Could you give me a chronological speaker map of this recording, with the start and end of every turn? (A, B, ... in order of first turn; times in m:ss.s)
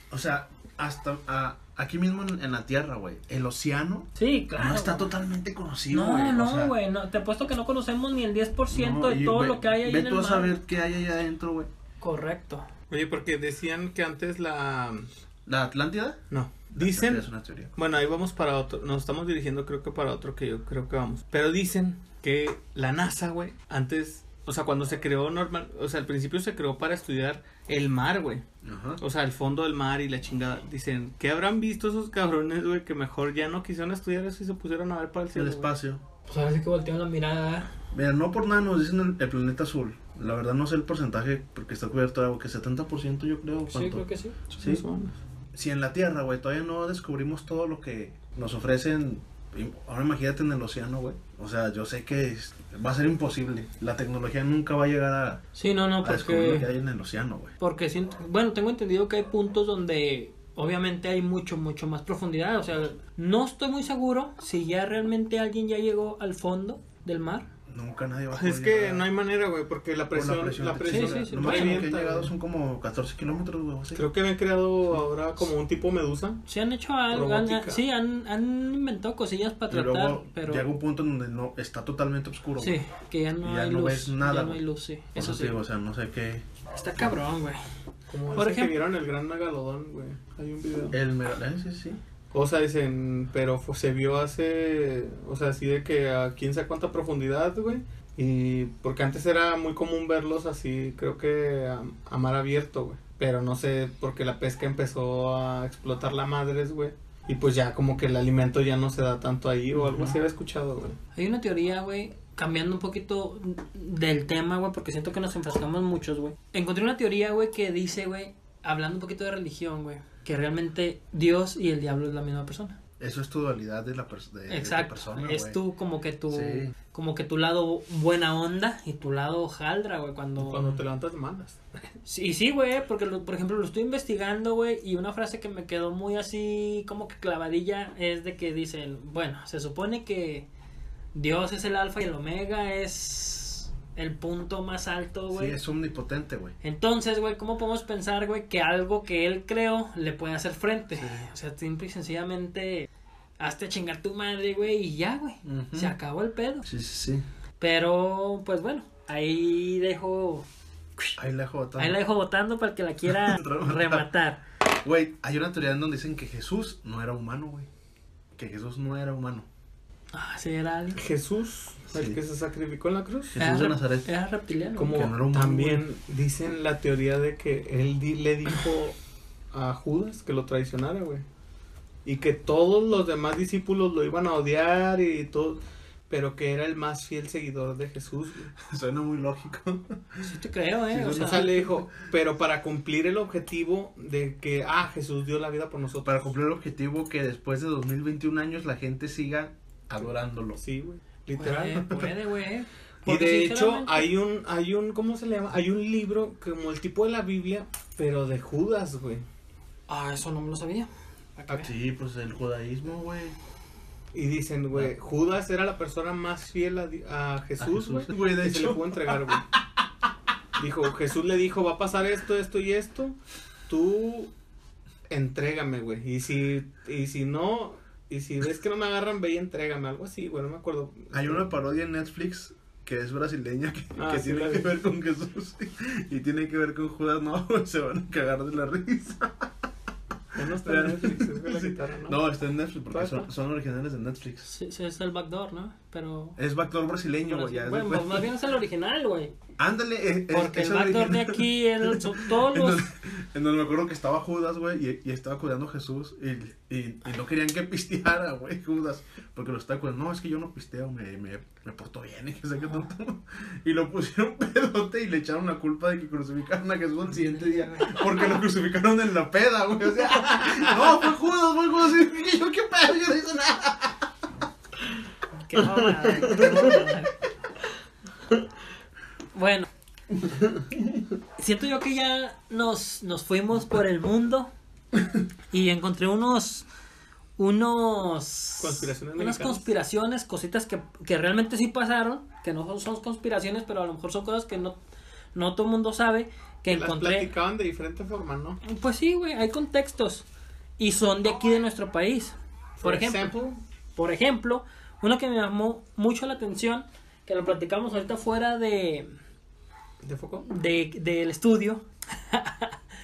0:00.1-0:06.8 A
0:04.2-0:05.1 B
0:05.9-0:10.5 B
0:08.7-0:11.7 A
0:12.0-0:12.7 B
0:12.9-0:15.1 C
0:15.5-0:17.7 A
0:16.3-0:28.4 C
0:28.6-0:29.0 A
0:29.0-0:35.7 C
0:35.3-0:36.0 A
0:36.3-0:37.7 B
0:37.9-0:44.8 A
0:43.7-0:44.4 B
0:44.6-0:45.2 C
0:45.5-0:55.4 A
0:55.6-0:56.7 B
0:56.0-0:57.5 A
0:57.6-1:07.5 B
1:07.7-1:09.1 A
1:08.3-1:12.3 C
1:10.1-1:14.0 A
1:10.8-1:11.9 B
1:14.0-1:16.4 C
1:16.5-1:20.7 B
1:17.1-1:17.8 C
1:19.7-1:22.8 A
1:22.6-1:25.6 B
1:23.4-1:24.6 A
1:25.2-1:26.4 A
1:26.7-1:27.6 B
1:28.1-1:31.0 C
1:28.4-1:28.8 B
1:30.9-1:32.0 A
1:32.3-1:51.0 C
1:49.9-1:50.1 A
1:51.2-2:02.8 B
2:03.0-2:05.6 A
2:04.5-2:10.7 B
2:06.3-2:06.7 A
2:10.4-2:11.8 C
2:12.0-2:20.5 B
2:21.1-2:25.6 B
2:25.3-2:26.6 A
2:26.6-2:32.9 B
2:31.0-2:31.3 A
2:33.4-2:36.7 B
2:35.4-2:36.0 A
2:36.6-2:37.2 A
2:37.6-2:40.5 B
2:41.2-2:42.0 A
2:41.8-2:44.4 B
2:43.1-2:44.1 A
2:44.8-2:47.7 A
2:48.4-2:49.5 A
2:50.1-2:51.0 B
2:50.9-2:53.4 C
2:51.9-2:52.2 A
2:53.3-2:54.1 A
2:53.4-2:55.0 B
2:54.8-2:59.0 C
2:54.9-2:55.8 A
2:59.5-3:01.2 C
3:02.0-3:08.5 C
3:08.6-3:10.3 A
3:10.2-3:11.7 B
3:10.9-3:11.6 A
3:11.2-3:16.2 C
3:16.0-3:20.6 A
3:20.6-3:22.1 C
3:21.4-3:24.1 B
3:23.1-3:29.2 C
3:29.9-3:31.7 B
3:31.5-3:33.4 A
3:34.1-3:39.5 C
3:37.6-3:39.4 A
3:40.6-3:43.2 C
3:43.7-3:44.3 C
3:45.1-3:51.5 C
3:51.1-3:59.5 A
3:53.9-3:54.8 C
4:00.4-4:02.2 C
4:00.4-4:04.5 A
4:02.9-4:03.3 C
4:04.5-4:06.4 B
4:06.4-4:08.3 A
4:07.3-4:09.3 B
4:09.6-4:34.1 A
4:10.3-4:12.9 B
4:27.1-4:28.4 B
4:35.5-4:37.2 B
4:39.3-4:39.7 B
4:41.4-4:44.5 B
4:45.5-4:46.7 B
4:47.4-4:54.8 B
4:48.6-4:49.7 C
4:55.3-4:57.3 B
4:56.7-4:58.6 C
4:58.6-5:00.2 B
5:00.8-5:03.3 B
5:02.8-5:03.6 C
5:04.0-5:09.1 B
5:10.0-5:10.5 C
5:10.4-5:12.8 B